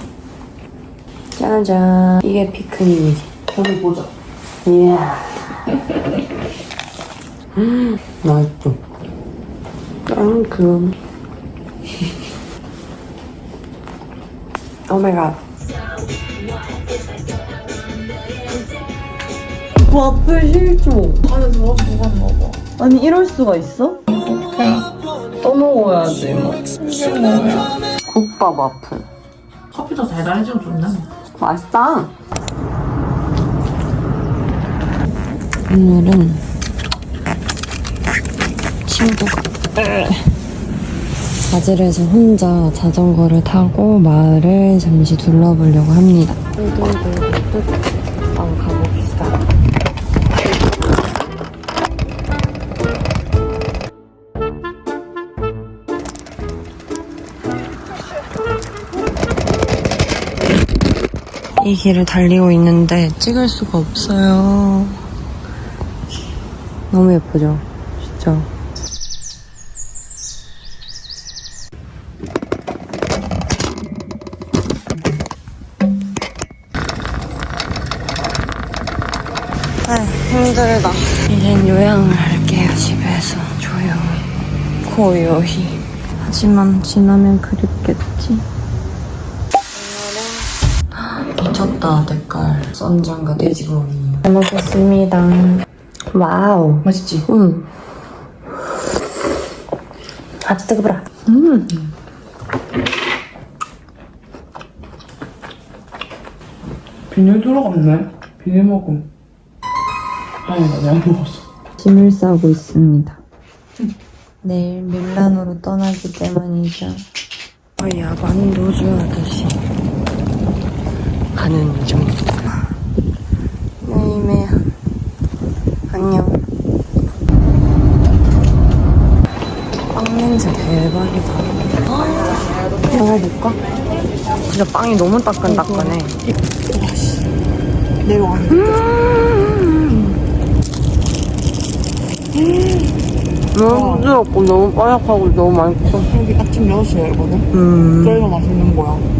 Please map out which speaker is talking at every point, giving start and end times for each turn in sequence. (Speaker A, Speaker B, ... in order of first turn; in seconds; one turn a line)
Speaker A: 1.4-3.4
Speaker B: 3.5-4.1
Speaker A: 4.6-5.7
Speaker A: 7.5-8.8
Speaker A: 10.1-10.9
Speaker A: 14.9-15.4
Speaker A: 19.9-21.2
Speaker B: 21.2-22.6
Speaker A: 22.8-24.0
Speaker B: 24.3-24.8
Speaker A: 25.4-26.8
Speaker B: 26.8-27.7
Speaker A: 28.0-29.1
Speaker B: 29.7-31.1
Speaker A: 31.4-32.1
Speaker A: 35.7-36.4
Speaker A: 38.9-40.3
Speaker A: 41.5-47.7
Speaker A: 48.3-49.4
Speaker A: 61.6-65.0
Speaker A: 66.9-68.5
Speaker A: 79.8-84.3
Speaker A: 84.8-88.5
Speaker A: 89.7-97.7
Speaker B: 96.8-97.2
Speaker A: 100.4-101.8
Speaker B: 107.1-109.0
Speaker B: 110.4-111.4
Speaker A: 111.8-113.2
Speaker A: 114.4-117.0
Speaker A: 117.8-119.6
Speaker A: 121.3-122.7
Speaker A: 123.8-124.6
Speaker A: 125.9-126.4
Speaker A: 129.9-133.6
Speaker A: 134.5-136.2
Speaker B: 135.4-136.0
Speaker B: 136.7-137.3
Speaker B: 138.0-138.9
Speaker A: 138.5-140.1
Speaker B: 142.4-142.9
Speaker A: 143.5-146.1
Speaker B: 143.6-144.1
Speaker B: 145.8-147.5
Speaker A: 147.5-148.4
Speaker B: 148.0-149.1